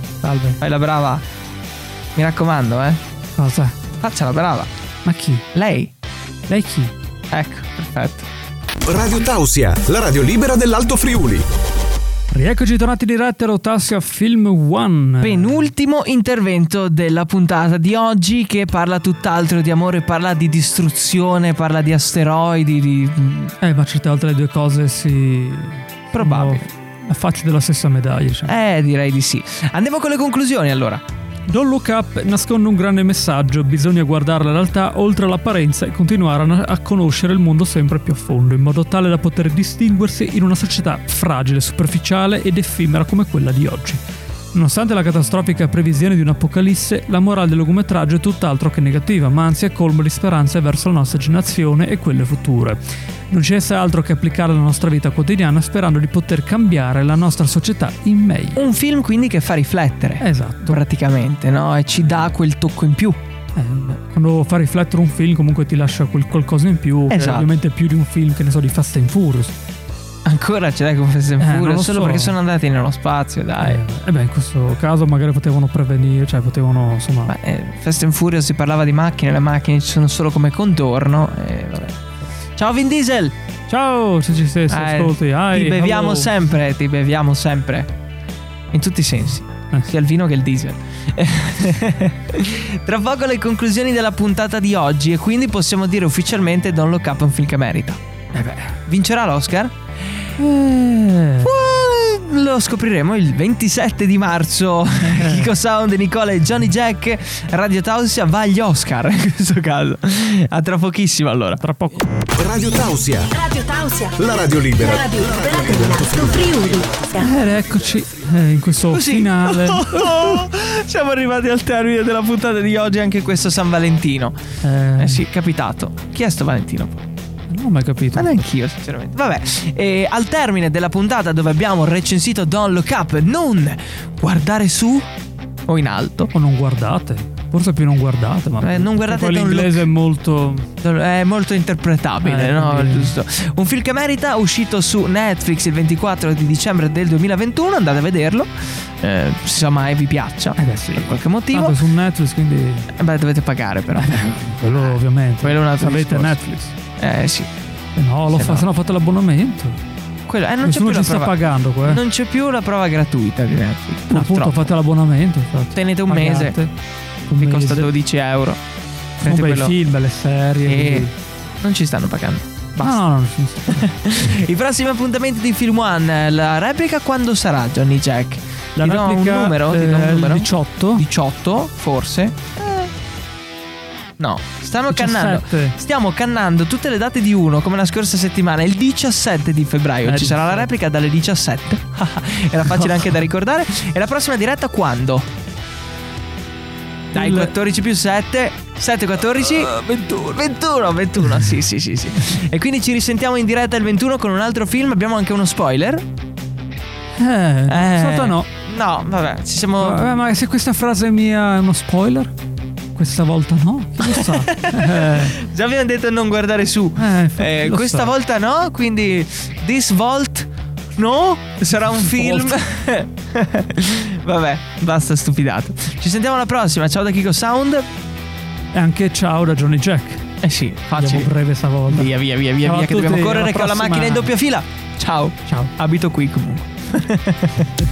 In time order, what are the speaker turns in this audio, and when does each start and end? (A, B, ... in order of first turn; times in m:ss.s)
0:00.2-0:00.6 A
0:00.6-0:01.2 B
0:02.2-0:03.0 B
0:03.4-0:03.8 A
0:04.0-0:04.7 B
0:05.0-0:05.5 A
0:05.5-0:05.9 B
0:06.5-0:06.9 A
0:07.3-0:08.3 B
0:08.8-0:11.5 C
0:12.3-0:15.7 A
0:15.2-0:23.6 B
0:23.6-0:28.6 A
0:26.1-0:26.7 B
0:28.5-0:31.0 B
0:31.5-0:44.0 A
0:44.5-0:52.8 A
0:53.3-0:58.6 A
0:58.6-1:03.2 B
1:00.2-1:00.8 A
1:03.6-1:09.6 A
1:07.1-1:07.5 B
1:10.3-1:13.8 B
1:11.4-1:12.4 A
1:13.6-1:17.3 A
1:17.3-1:22.0 B
1:22.6-1:23.3 B
1:23.7-1:26.3 A
1:24.7-1:27.9 B
1:28.7-1:38.0 B
1:38.3-1:38.8 A
1:38.9-1:40.3 B
1:40.4-1:41.5 A
1:41.4-1:51.6 B
1:45.1-1:45.5 A
1:51.6-1:52.1 A
1:52.3-1:53.3 C
1:53.3-1:54.2 D
1:54.2-1:56.9 C
1:54.8-1:57.3 D
1:57.2-2:00.3 A
1:58.9-2:04.4 B
2:04.6-2:05.2 A
2:05.0-2:07.0 B
2:07.5-2:08.4 A
2:08.1-2:15.1 B
2:15.7-2:16.3 B
2:16.3-2:20.7 A
2:18.6-2:19.9 B
2:20.8-2:31.8 B
2:22.2-2:23.2 A
2:30.6-2:32.9 A
2:33.0-2:34.2 B
2:34.0-2:36.8 A
2:34.8-2:36.4 B
2:37.0-2:37.5 B
2:38.0-2:39.8 A
2:38.3-2:38.7 B
2:40.3-2:44.7 B
2:40.6-2:42.0 A
2:44.1-2:46.7 A
2:45.7-2:46.6 B
2:47.3-2:47.9 A
2:47.3-2:48.6 B
2:49.2-2:49.8 B
2:49.2-2:51.1 A
2:50.7-2:51.1 B
2:51.6-2:53.0 B
2:52.8-2:54.4 A
2:53.7-3:02.9 B
2:58.8-3:01.0 A
3:04.2-3:15.3 B
3:04.9-3:05.8 A
3:10.0-3:10.7 A
3:12.7-3:13.2 A
3:17.1-3:17.5 A
3:17.1-3:26.0 B
3:19.6-3:20.4 A
3:27.2-3:28.5 A
3:27.7-3:30.1 B
3:29.8-3:32.3 A
3:33.0-3:35.4 A
3:34.0-3:47.9 B
3:37.0-3:38.1 A
3:41.9-3:42.6 A
3:48.7-3:50.4 A
3:50.4-3:51.3 B
3:51.0-3:54.3 A
3:51.9-3:57.7 B
3:55.5-3:55.7 A